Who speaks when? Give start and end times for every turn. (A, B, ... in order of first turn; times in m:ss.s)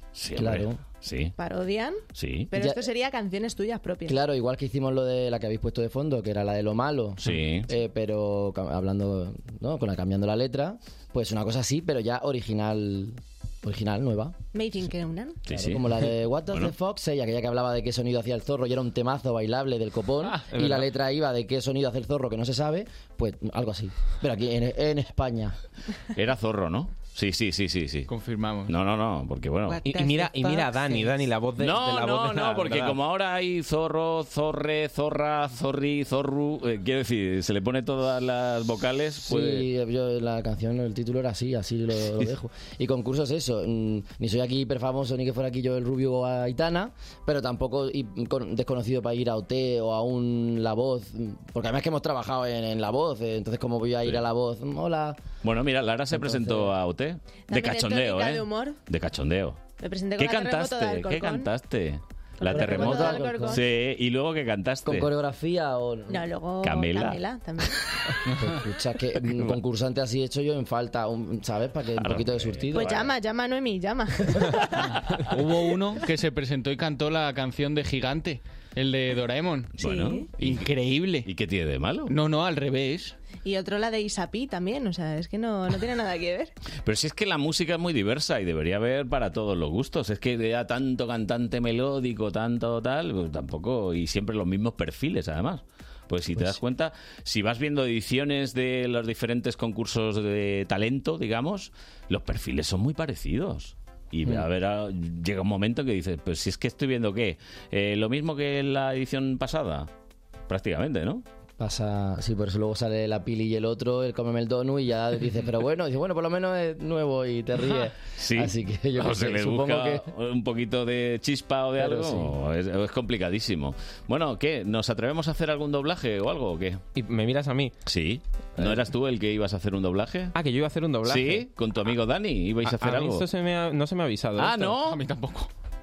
0:00.1-0:01.3 A
0:00.4-0:00.8 B
0:01.4-0:04.2 C
0:02.1-0:02.5 A
0:02.6-0:02.8 B
0:04.0-0:14.4 B
0:07.2-0:07.7 A
0:14.5-0:15.4 C
0:15.5-0:16.7 A
0:15.5-0:25.5 B
0:20.5-0:20.9 D
0:26.1-0:28.1 A
0:28.1-0:28.7 E
0:28.7-0:29.8 A
0:29.7-0:31.2 E
0:29.8-0:33.0 D
0:31.6-0:39.7 A
0:39.2-0:55.2 B
0:55.4-0:59.6 A
0:56.1-0:56.7 B
0:57.5-0:58.8 C
0:59.8-1:01.5 C
1:00.2-1:05.1 A
1:02.4-1:03.6 C
1:02.5-1:03.6 B
1:04.8-1:06.3 B
1:06.1-1:07.8 C
1:06.6-1:07.2 A
1:08.4-1:13.1 B
1:12.0-1:13.1 A
1:12.7-1:14.9 C
1:15.3-1:19.7 E
1:19.8-1:20.6 A
1:19.8-1:20.3 C
1:20.4-1:21.3 E
1:21.2-1:22.1 A
1:22.1-1:23.1 E
1:23.4-1:26.5 C
1:26.8-1:49.9 A
1:50.5-1:51.2 A
1:51.6-2:00.0 B
1:57.7-2:06.8 A
2:01.8-2:02.3 B
2:06.9-2:07.8 D
2:07.8-2:10.3 A
2:10.3-2:11.5 D
2:11.0-2:13.3 A
2:12.6-2:14.8 D
2:14.4-2:15.0 A
2:14.8-2:15.5 E